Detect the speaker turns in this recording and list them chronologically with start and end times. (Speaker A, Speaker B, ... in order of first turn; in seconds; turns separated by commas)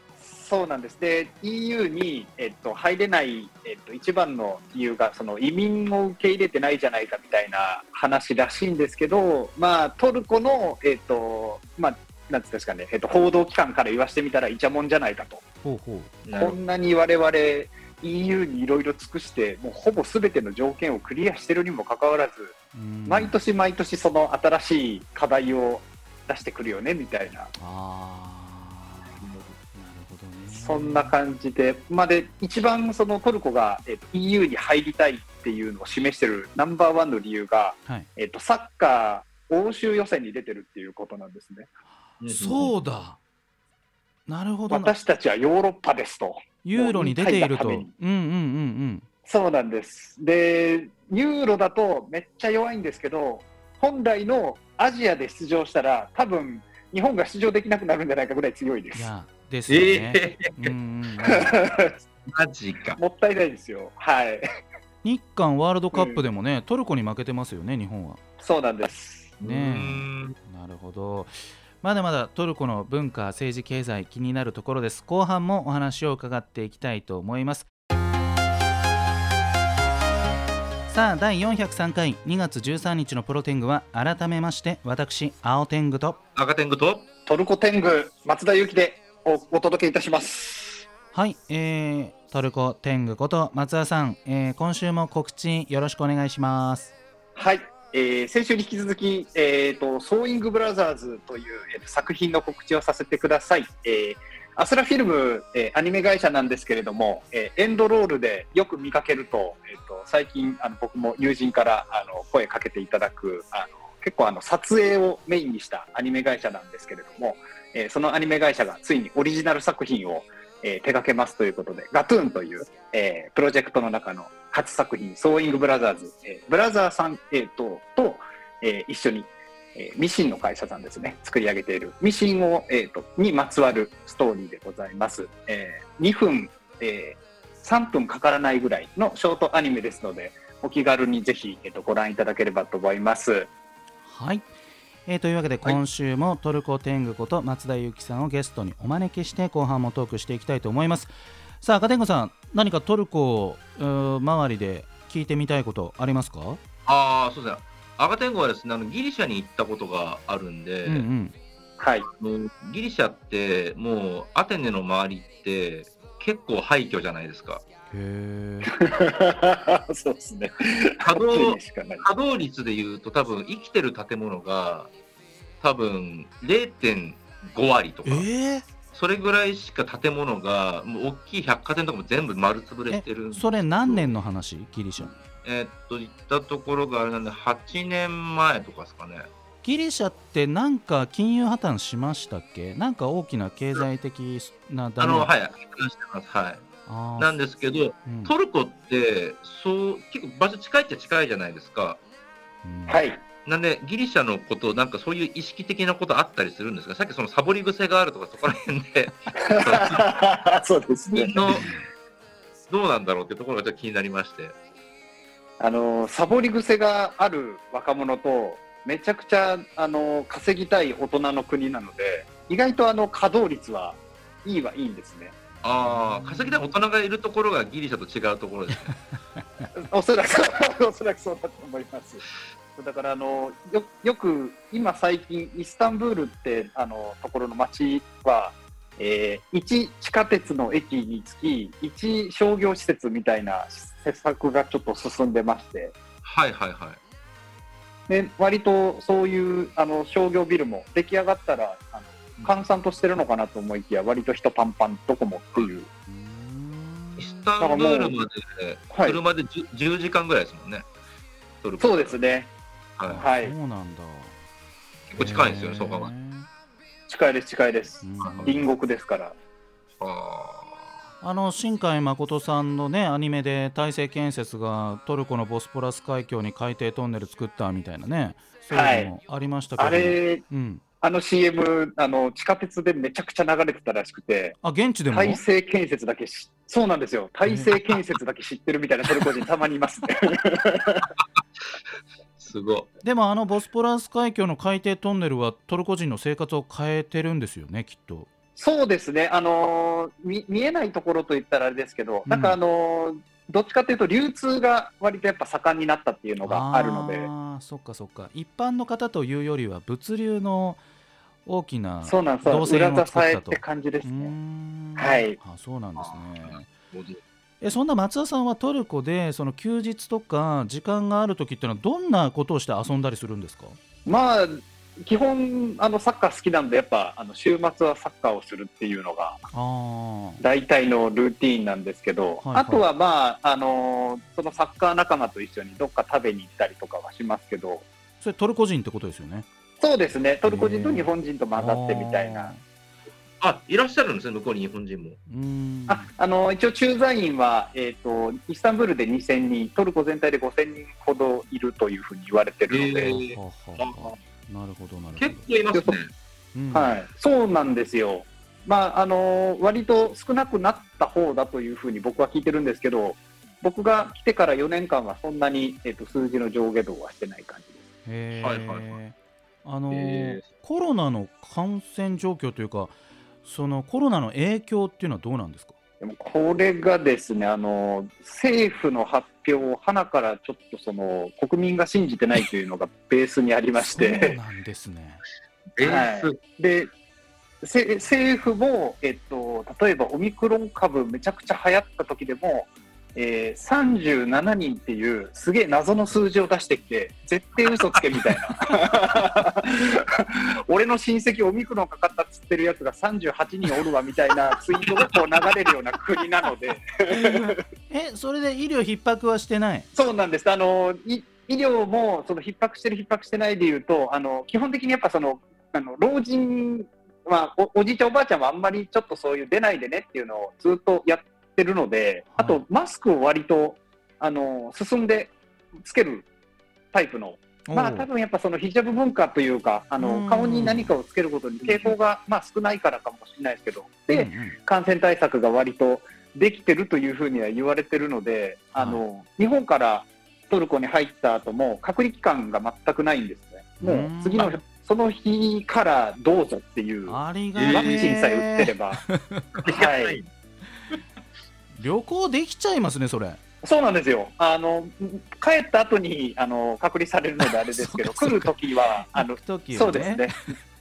Speaker A: 0.2-15.4, Speaker B: 15.6-16.1, Speaker C: 16.2-16.6, Speaker A: 16.3-22.5, Speaker B: 22.7-23.4, Speaker A: 23.1-27.5, Speaker B: 27.6-31.1, Speaker A: 30.5-41.7, Speaker C: 42.2-42.7, Speaker B: 42.3-43.2, Speaker B: 44.3-44.9, Speaker A: 44.7-47.9, Speaker B: 46.6-49.0, Speaker A: 49.2-59.1, Speaker B: 58.9-61.6, Speaker C: 59.7-60.7, Speaker A: 61.3-61.9, Speaker C: 62.2-63.0, Speaker A: 63.0-64.4, Speaker B: 65.0-68.2, Speaker A: 65.9-66.2, Speaker A: 68.4-69.3, Speaker C: 69.4-70.3, Speaker B: 69.4-77.7, Speaker B: 80.9-86.2, Speaker C: 86.3-87.1, Speaker A: 87.2-90.8, Speaker B: 91.1-96.9, Speaker A: 97.3-143.5, Speaker B: 144.0-144.5, Speaker B: 145.1-156.6, Speaker C: 156.8-161.1, Speaker B: 160.8-161.3, Speaker A: 161.8-162.1, Speaker C: 162.2-167.6, Speaker B: 167.9-168.7, Speaker A: 168.7-172.0, Speaker C: 171.0-174.9, Speaker C: 175.6-178.3, Speaker B: 178.0-178.7, Speaker C: 178.9-184.1, Speaker B: 182.9-185.1, Speaker C: 185.4-189.3, Speaker B: 189.6-195.3, Speaker C: 195.0-202.0, Speaker B: 196.8-197.3, Speaker B: 198.0-198.3, Speaker B: 202.6-203.0, Speaker A: 202.9-203.2, Speaker C: 203.4-210.1, Speaker A: 209.4-211.6, Speaker C: 211.1-211.7, Speaker B: 211.5-211.8, Speaker C: 212.7-214.6, Speaker A: 215.6-225.3, Speaker C: 225.6-228.9, Speaker A: 229.8-232.2, Speaker A: 232.8-245.9, Speaker C: 246.2-247.0, Speaker A: 248.1-255.9, Speaker B: 256.1-257.4, Speaker C: 257.2-260.9, Speaker A: 257.6-258.1, Speaker A: 258.9-259.2, Speaker C: 261.6-262.2, Speaker A: 261.8-262.5, Speaker C: 263.0-263.2, Speaker B: 263.1-264.3, Speaker A: 263.2-263.5, Speaker C: 265.1-266.1, Speaker B: 265.2-266.5, Speaker A: 267.1-269.3, Speaker B: 268.0-268.6, Speaker C: 268.2-268.6, Speaker C: 270.0-270.9, Speaker B: 271.2-280.8, Speaker A: 278.7-279.1, Speaker A: 279.8-280.4, Speaker A: 281.0-284.6, Speaker B: 284.6-285.4, Speaker A: 285.1-291.1, Speaker B: 287.4-287.7, Speaker C: 292.4-292.9, Speaker B: 293.0-298.3, Speaker A: 298.6-307.3, Speaker B: 302.2-302.6, Speaker B: 306.4-310.8, Speaker B: 311.4-316.7, Speaker A: 312.0-314.3, Speaker A: 315.0-315.4, Speaker C: 316.0-317.2, Speaker B: 317.6-323.8, Speaker A: 324.1-329.4, Speaker B: 329.5-330.4, Speaker A: 330.4-337.9, Speaker B: 332.4-332.8, Speaker B: 338.2-339.4, Speaker A: 339.8-342.5, Speaker B: 340.4-342.6, Speaker C: 343.4-345.2, Speaker B: 345.3-346.1, Speaker A: 345.9-353.2, Speaker C: 352.7-354.2, Speaker B: 353.0-355.4, Speaker C: 355.2-356.1, Speaker A: 355.7-356.0, Speaker B: 356.5-356.9, Speaker A: 356.7-367.8, Speaker B: 368.1-375.7, Speaker C: 368.4-368.9, Speaker C: 369.9-370.5, Speaker A: 376.0-384.4, Speaker B: 383.8-385.2, Speaker C: 385.8-386.4, Speaker A: 385.8-386.9, Speaker A: 387.6-407.6, Speaker B: 407.1-409.9, Speaker A: 409.9-426.3, Speaker B: 422.3-422.6, Speaker A: 426.9-449.0, Speaker B: 427.7-428.1, Speaker B: 430.0-430.9, Speaker B: 434.1-434.6, Speaker B: 438.7-439.0, Speaker B: 443.8-444.6, Speaker B: 447.1-449.5, Speaker C: 447.6-448.2, Speaker C: 449.6-450.3, Speaker A: 449.7-450.2, Speaker B: 451.8-453.4, Speaker A: 453.6-460.4, Speaker B: 457.7-458.6, Speaker B: 459.1-460.3